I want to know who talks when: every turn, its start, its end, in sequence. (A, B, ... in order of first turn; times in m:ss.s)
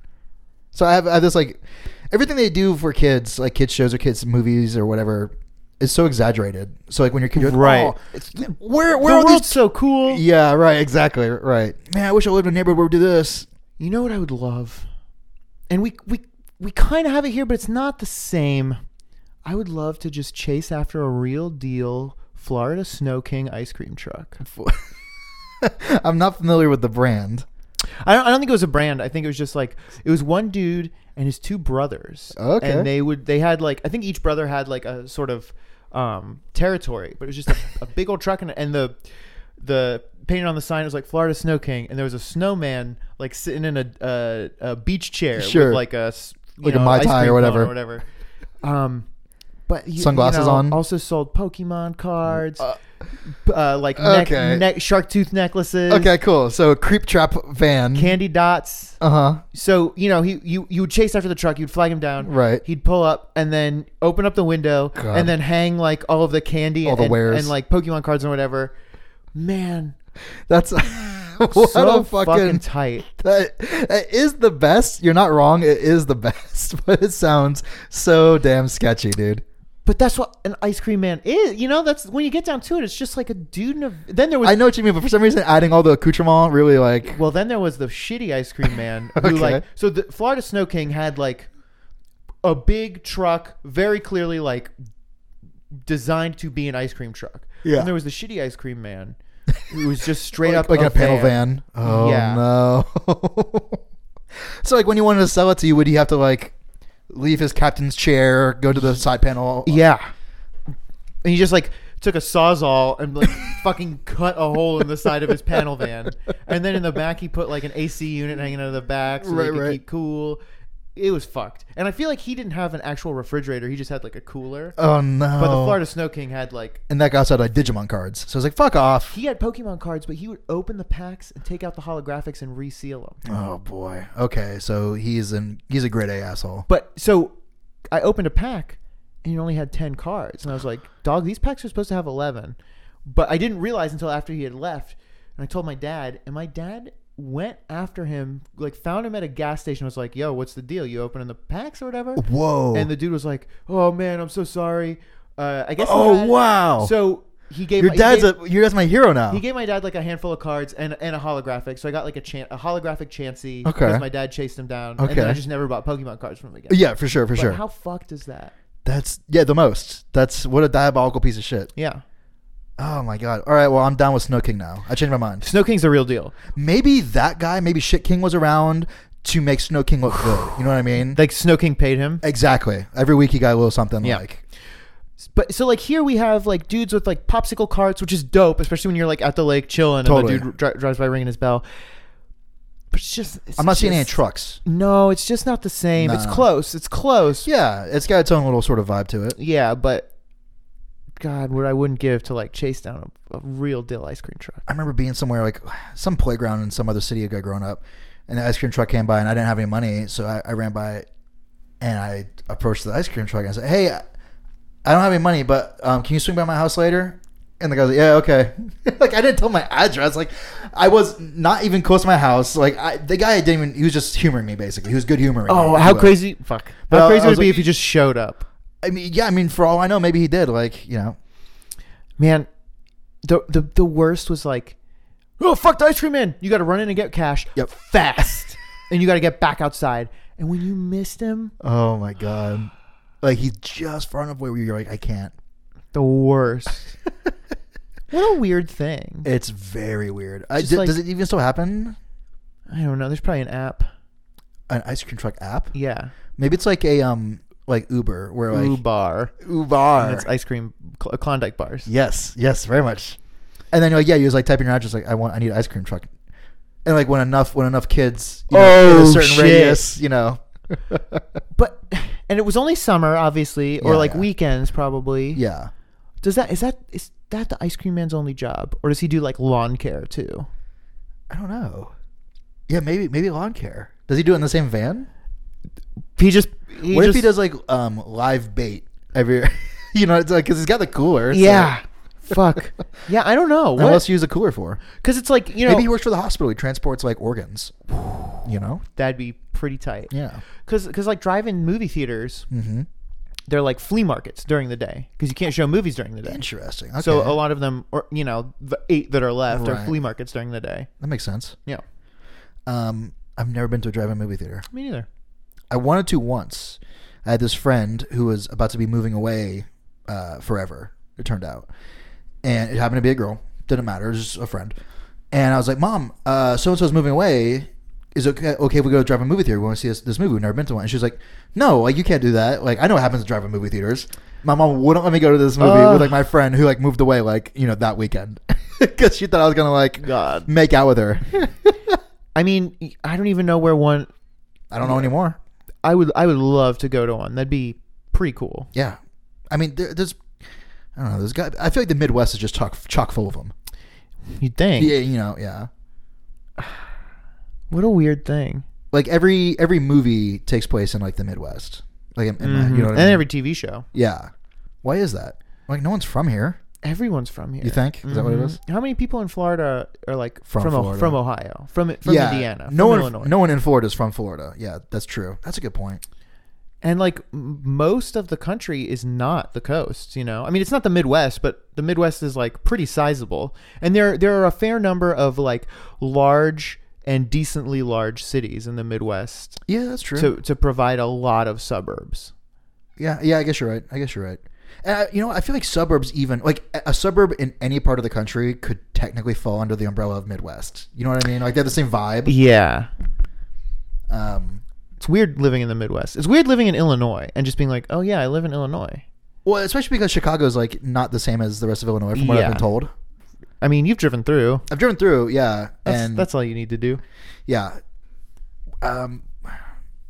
0:00.7-0:13.5 A
0:07.3-0:10.2 B
0:13.8-0:14.8 B
0:15.7-0:18.8 B
0:19.4-0:24.4 B
0:24.4-0:24.9 A
0:25.6-0:27.4 A
0:28.0-0:39.0 B
0:32.3-0:32.9 A
0:39.6-0:48.0 B
0:45.3-0:45.8 A
0:46.6-0:47.7 A
0:48.6-0:49.1 B
0:49.7-0:52.7 B
0:50.0-0:50.8 A
0:52.3-0:52.8 A
0:53.3-0:56.1 B
0:53.9-0:54.6 A
0:55.9-0:58.2 A
0:57.9-0:59.0 B
0:59.0-0:59.4 A
0:59.5-1:08.7 B
1:02.2-1:02.6 A
1:04.9-1:05.3 A
1:06.8-1:07.5 A
1:09.3-1:10.0 B
1:10.5-1:19.4 A
1:11.5-1:13.1 B
1:19.8-1:24.6 B
1:24.4-1:27.2 A
1:27.0-1:31.5 B
1:29.2-1:29.6 A
1:32.4-1:34.7 B
1:35.8-1:39.2 B
1:37.6-1:37.9 A
1:39.7-1:42.5 B
1:40.4-1:43.8 A
1:44.6-1:46.5 A
1:47.1-1:49.8 A
1:49.6-1:50.1 B
1:51.2-2:00.4 B
1:59.2-1:59.8 A
2:00.9-2:04.8 B
2:04.8-2:05.8 A
2:05.4-2:06.8 B
2:06.9-2:09.2 A
2:09.1-2:13.2 B
2:13.2-2:16.6 A
2:16.7-2:17.3 B
2:17.9-2:38.4 B
2:32.2-2:32.9 A
2:35.8-2:36.9 A
2:37.8-2:39.4 A
2:39.3-2:48.5 B
2:43.6-2:44.1 A
2:45.0-2:45.4 A
2:46.7-2:47.6 A
2:48.8-2:51.7 A
2:51.7-2:52.0 B
2:52.8-2:55.4 A
2:55.4-2:56.4 B
2:56.5-3:01.2 A
3:01.0-3:02.2 B
3:02.2-3:04.4 A
3:04.0-3:04.3 B
3:05.2-3:11.6 B
3:10.0-3:10.5 A
3:12.9-3:17.5 B
3:13.6-3:14.6 A
3:16.0-3:16.5 A
3:17.4-3:19.4 A
3:19.4-3:20.1 B
3:21.2-3:24.7 B
3:24.7-3:31.0 A
3:31.8-3:34.0 A
3:34.8-3:46.2 A
3:45.4-3:48.4 B
3:46.9-3:47.7 A
3:48.8-3:51.2 A
3:52.2-3:52.5 B
3:53.2-3:54.8 B
3:55.4-4:01.5 B
3:57.6-3:58.4 A
4:01.6-4:05.3 A
4:05.9-4:06.9 B
4:08.1-4:09.3 B
4:09.2-4:12.0 A
4:10.6-4:11.0 B
4:12.7-4:13.9 B
4:14.7-4:15.7 A
4:15.7-4:16.1 B
4:16.4-4:18.8 A
4:18.5-4:19.4 B
4:19.4-4:20.3 A
4:19.9-4:21.9 B
4:21.8-4:23.2 A
4:23.7-4:26.1 A
4:26.8-4:31.2 A
4:28.5-4:29.9 B
4:31.5-4:35.4 B
4:33.8-4:34.3 A
4:35.3-4:35.7 A
4:36.2-4:40.5 B
4:41.3-4:41.9 A
4:42.7-4:45.1 A
4:46.2-4:47.3 B
4:46.8-4:51.8 A
4:51.3-4:54.1 B
4:53.8-4:54.8 A
4:54.9-4:55.9 B
4:55.6-4:57.8 A
4:58.4-4:58.8 A
4:58.9-5:00.1 B
5:00.1-5:00.4 A
5:00.6-5:02.5 B
5:02.5-5:02.9 A
5:03.5-5:06.4 B
5:06.2-5:07.4 A
5:07.0-5:10.9 B
5:09.5-5:10.0 A
5:11.0-5:11.6 A
5:12.7-5:14.6 A
5:14.7-5:15.1 B
5:15.7-5:21.7 A
5:22.4-5:24.7 A
5:25.3-5:42.0 A
5:35.6-5:36.2 B
5:40.0-5:40.5 B
5:42.3-5:44.1 B
5:44.7-5:45.4 A
5:44.8-5:45.1 B
5:45.8-5:48.7 B
5:49.5-5:50.2 A
5:51.0-5:53.5 A
5:54.3-5:55.0 B
5:54.8-5:55.7 A
5:57.7-5:58.6 B
5:58.9-6:03.2 A
6:02.4-6:03.8 B
6:03.9-6:04.3 A
6:04.8-6:06.6 A
6:06.8-6:13.4 B
6:07.6-6:08.6 A
6:10.5-6:11.2 A
6:12.0-6:16.0 A
6:16.8-6:29.6 B
6:29.7-6:30.3 A
6:30.1-6:32.3 B
6:33.0-6:42.3 A
6:42.2-6:42.9 B
6:44.1-6:44.6 A
6:45.0-6:49.0 B
6:49.4-6:52.9 A
6:52.1-6:52.7 B
6:53.6-6:54.6 B
6:54.7-6:56.3 A
6:55.8-6:57.0 B
6:57.5-6:57.8 A
6:58.8-6:59.6 A